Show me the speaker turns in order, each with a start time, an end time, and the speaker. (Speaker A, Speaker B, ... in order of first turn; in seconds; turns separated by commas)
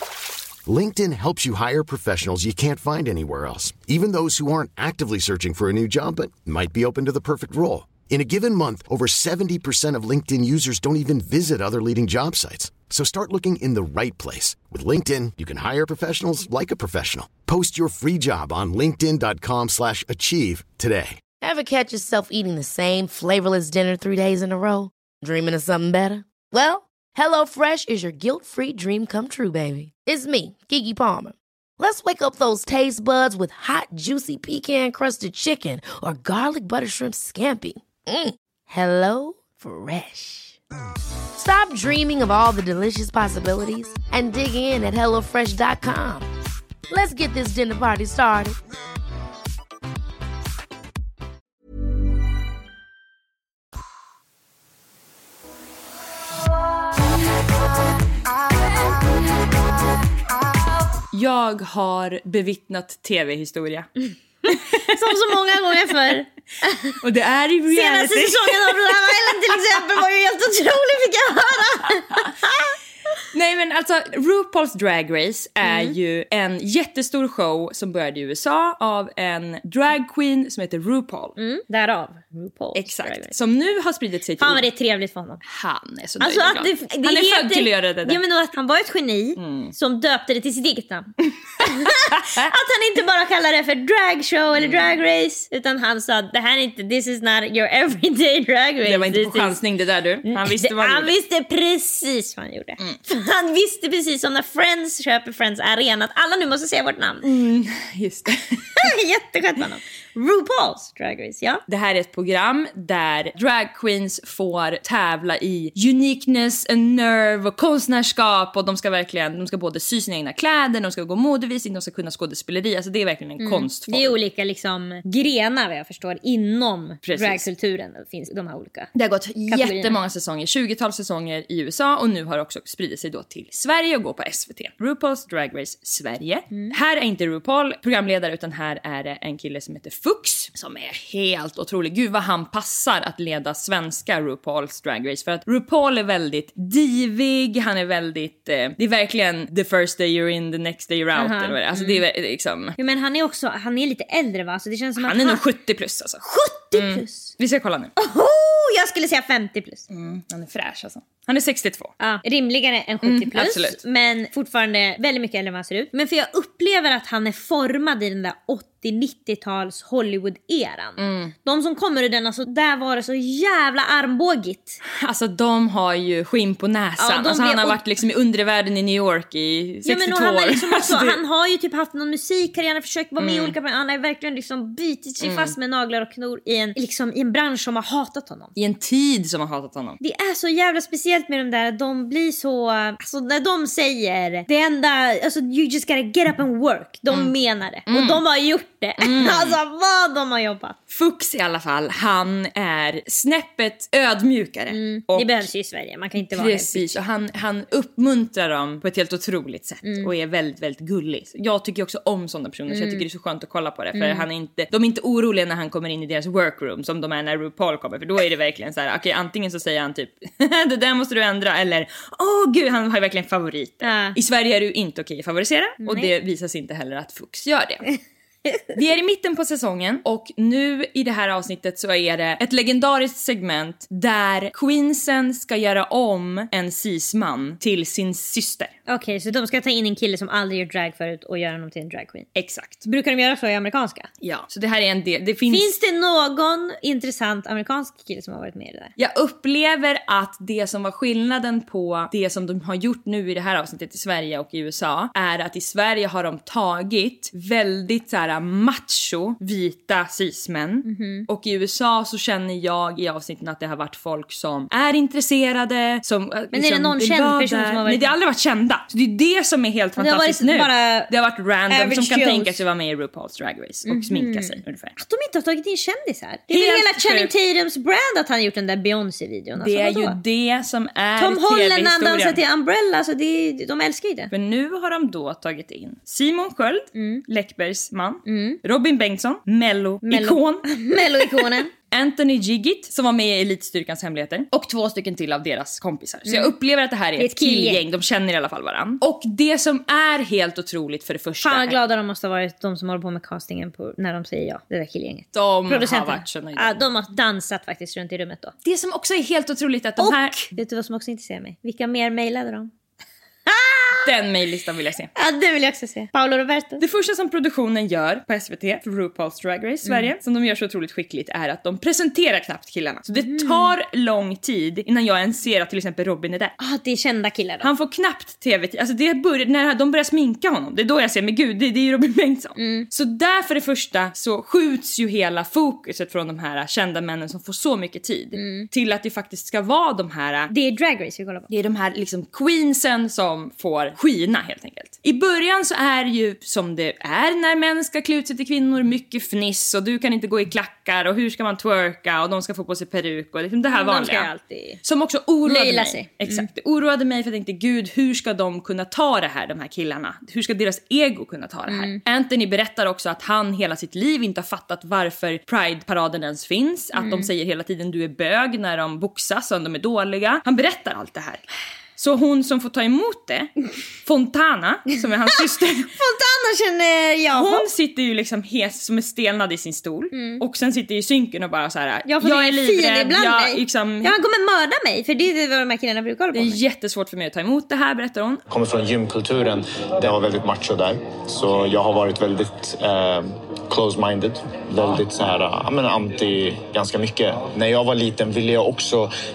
Speaker A: 0.7-21.2, Speaker B: 21.4-40.6, Speaker B: 41.4-46.3, Speaker B: 46.9-48.6, Speaker C: 61.1-63.9, Speaker D: 64.5-67.0, Speaker C: 67.0-69.0, Speaker D: 67.7-72.7, Speaker C: 73.3-81.3, Speaker D: 75.6-75.9, Speaker D: 81.4-83.3, Speaker C: 82.7-84.6, Speaker D: 84.4-85.4, Speaker C: 85.4-88.2, Speaker D: 86.2-99.6, Speaker C: 89.4-89.7, Speaker C: 94.6-95.0, Speaker C: 98.8-101.1, Speaker D: 100.3-107.2, Speaker C: 107.2-108.8, Speaker D: 108.8-111.6, Speaker C: 111.7-124.1, Speaker D: 123.4-128.9, Speaker C: 127.0-127.4, Speaker C: 128.9-152.8, Speaker D: 129.4-129.9, Speaker D: 151.1-152.0, Speaker D: 152.8-155.4, Speaker C: 155.0-156.2, Speaker D: 156.2-157.3, Speaker C: 156.7-157.9, Speaker D: 158.0-159.9, Speaker C: 159.9-161.9, Speaker D: 162.0-174.8, Speaker C: 163.0-163.8, Speaker C: 171.0-171.3, Speaker C: 175.0-181.2, Speaker D: 177.0-177.8, Speaker D: 179.8-188.5, Speaker C: 183.2-183.5, Speaker C: 185.2-185.5, Speaker C: 188.6-190.0, Speaker D: 190.0-200.8, Speaker C: 197.9-198.2, Speaker C: 199.0-199.6, Speaker C: 200.9-205.5, Speaker D: 204.7-207.0, Speaker C: 206.3-227.8, Speaker D: 212.7-213.0, Speaker D: 213.9-214.3, Speaker D: 223.8-224.2, Speaker D: 225.8-226.1, Speaker C: 228.7-238.7, Speaker D: 238.9-242.3, Speaker C: 242.3-242.8, Speaker D: 242.8-244.1, Speaker C: 244.2-245.7, Speaker D: 245.5-248.9, Speaker C: 249.0-274.9, Speaker D: 260.8-261.3, Speaker D: 266.5-268.1, Speaker D: 270.0-271.1, Speaker D: 271.7-272.6, Speaker D: 273.9-280.2, Speaker C: 276.5-277.3, Speaker C: 279.6-282.4, Speaker D: 281.2-284.3, Speaker C: 284.3-290.6, Speaker D: 286.9-287.2, Speaker D: 288.2-288.6, Speaker D: 290.1-291.7, Speaker C: 291.9-301.8, Speaker D: 296.2-296.5, Speaker D: 297.2-297.8, Speaker D: 301.4-308.5, Speaker C: 305.3-306.8, Speaker C: 308.6-310.5, Speaker D: 310.0-312.7, Speaker D: 313.5-314.1, Speaker C: 314.0-315.1, Speaker D: 315.2-316.8, Speaker C: 316.8-326.5, Speaker D: 319.9-320.1, Speaker D: 323.1-323.7, Speaker D: 326.6-327.7, Speaker C: 327.6-340.5, Speaker D: 332.6-332.9, Speaker D: 338.3-338.7, Speaker D: 340.5-341.5, Speaker C: 341.5-354.3, Speaker D: 353.7-354.8, Speaker C: 354.8-371.4, Speaker D: 355.4-356.4, Speaker D: 361.7-362.0, Speaker D: 366.9-367.3, Speaker C: 372.0-375.9, Speaker D: 375.9-377.6, Speaker C: 377.3-384.1, Speaker D: 380.1-380.4, Speaker D: 382.1-386.6, Speaker C: 386.3-388.4, Speaker E: 388.5-399.1